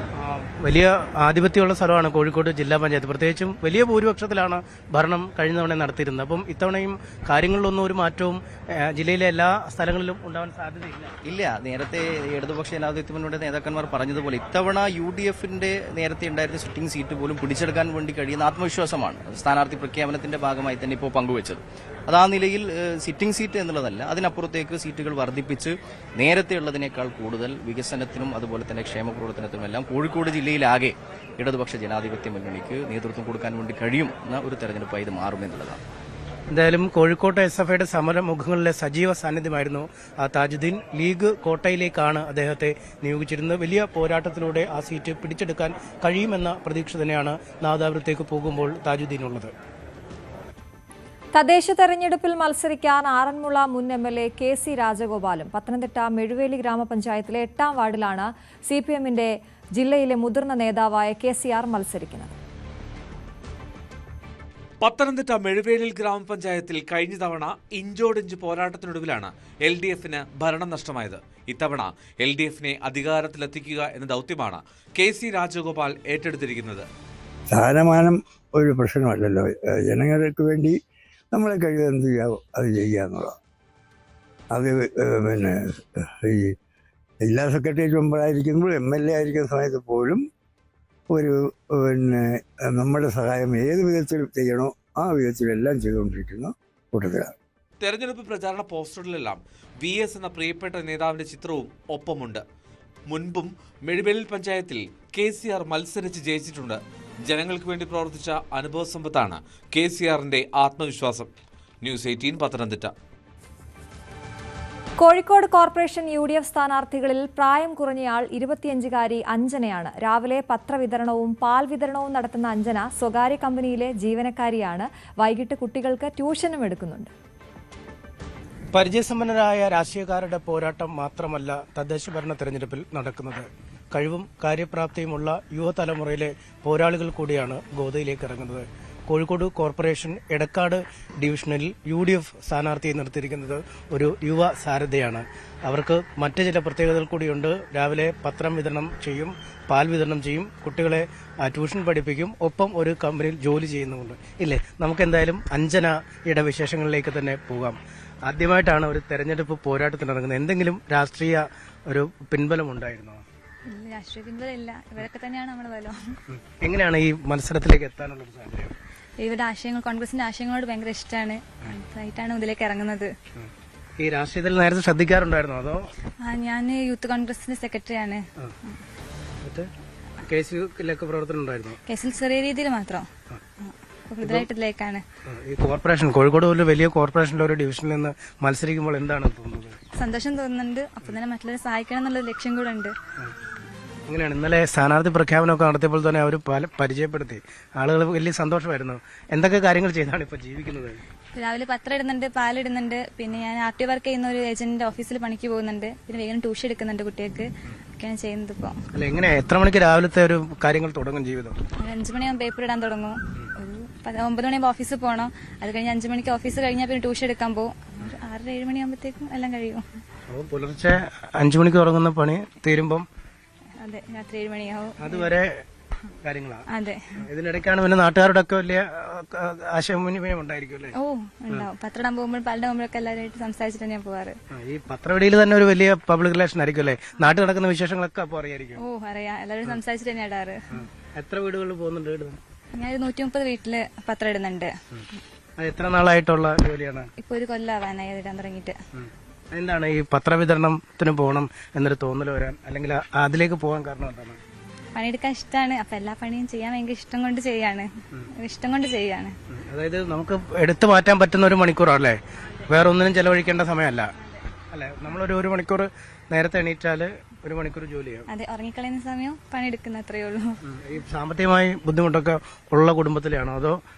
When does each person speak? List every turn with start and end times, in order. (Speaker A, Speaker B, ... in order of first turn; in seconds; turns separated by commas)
Speaker A: 0.2-11.1, Speaker B: 11.2-35.8, Speaker A: 36.5-49.5, Speaker C: 51.3-62.4, Speaker D: 64.8-76.9, Speaker E: 77.5-80.8, Speaker E: 81.3-83.3, Speaker E: 84.5-85.6, Speaker E: 86.2-86.5, Speaker E: 87.2-90.2, Speaker E: 91.1-97.3, Speaker D: 97.8-102.4, Speaker D: 103.1-111.3, Speaker D: 111.8-112.9, Speaker C: 115.0-127.1, Speaker A: 128.7-163.2, Speaker F: 163.7-165.9, Speaker A: 166.3-168.7, Speaker F: 169.2-173.1, Speaker A: 173.3-175.8, Speaker F: 176.2-178.8, Speaker A: 179.4-179.7, Speaker A: 180.2-181.8, Speaker F: 181.9-183.1, Speaker F: 183.6-185.0, Speaker A: 184.2-184.5, Speaker A: 185.2-189.8, Speaker F: 190.0-192.9, Speaker A: 194.1-201.0, Speaker F: 201.3-207.5, Speaker F: 208.0-208.7, Speaker A: 208.9-211.6, Speaker F: 211.8-219.8, Speaker A: 220.3-223.1, Speaker F: 223.8-225.4, Speaker A: 225.0-225.6, Speaker A: 226.2-226.6, Speaker F: 226.7-227.0, Speaker A: 227.2-230.9, Speaker F: 231.0-234.3, Speaker A: 234.5-238.8, Speaker F: 238.8-240.6, Speaker A: 240.7-242.4, Speaker F: 242.8-244.7, Speaker A: 245.6-247.1, Speaker F: 247.2-248.7, Speaker A: 248.9-254.4, Speaker F: 254.9-259.3, Speaker A: 259.5-264.1, Speaker A: 264.7-268.2, Speaker F: 268.3-270.4, Speaker A: 270.6-273.8